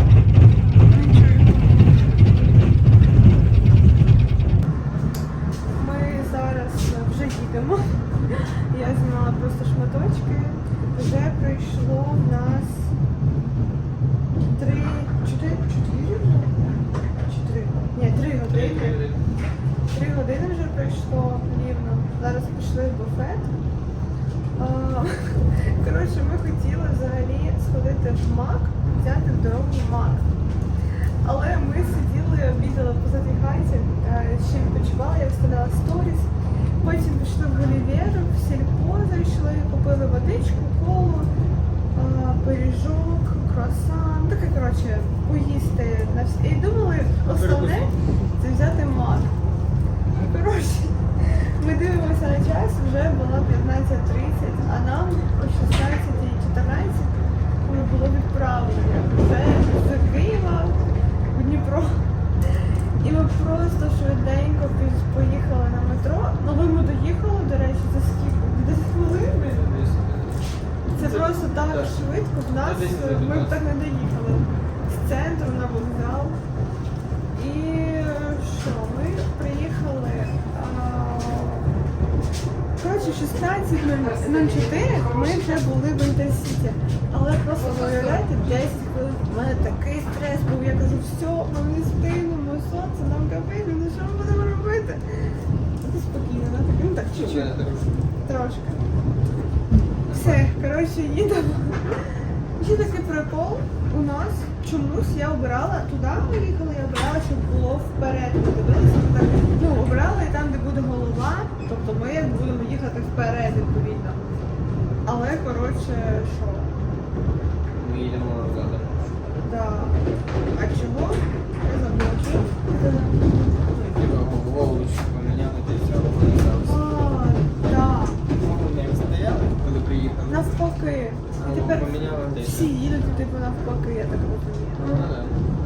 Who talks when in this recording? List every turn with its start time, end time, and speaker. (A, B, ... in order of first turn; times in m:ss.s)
0:00.8-0:01.8 A
0:05.7-0:12.9 A
0:14.4-0:16.6 A
0:17.3-0:19.0 A
0:18.5-0:19.2 B
0:19.9-0:23.5 A
0:24.6-0:30.3 A
0:31.2-0:36.3 A
0:36.8-0:41.3 A
0:41.9-0:49.3 A
0:47.3-0:48.0 B
0:50.1-1:09.7 A
1:09.1-1:12.0 B
1:10.9-1:16.4 A
1:12.6-1:13.6 B
1:17.3-1:21.7 A
1:22.8-1:35.1 A
1:35.8-1:37.6 A
1:37.0-1:38.1 B
1:38.2-1:38.8 A
1:40.0-1:40.5 B
1:40.1-1:54.2 A
1:55.1-1:56.7 A
1:57.8-1:59.2 B
1:59.4-2:00.0 A
2:00.5-2:03.2 A
2:03.7-2:06.9 B
2:06.6-2:08.2 A
2:08.3-2:10.7 B
2:10.3-2:15.1 A
2:11.3-2:12.8 B
2:14.8-2:15.4 B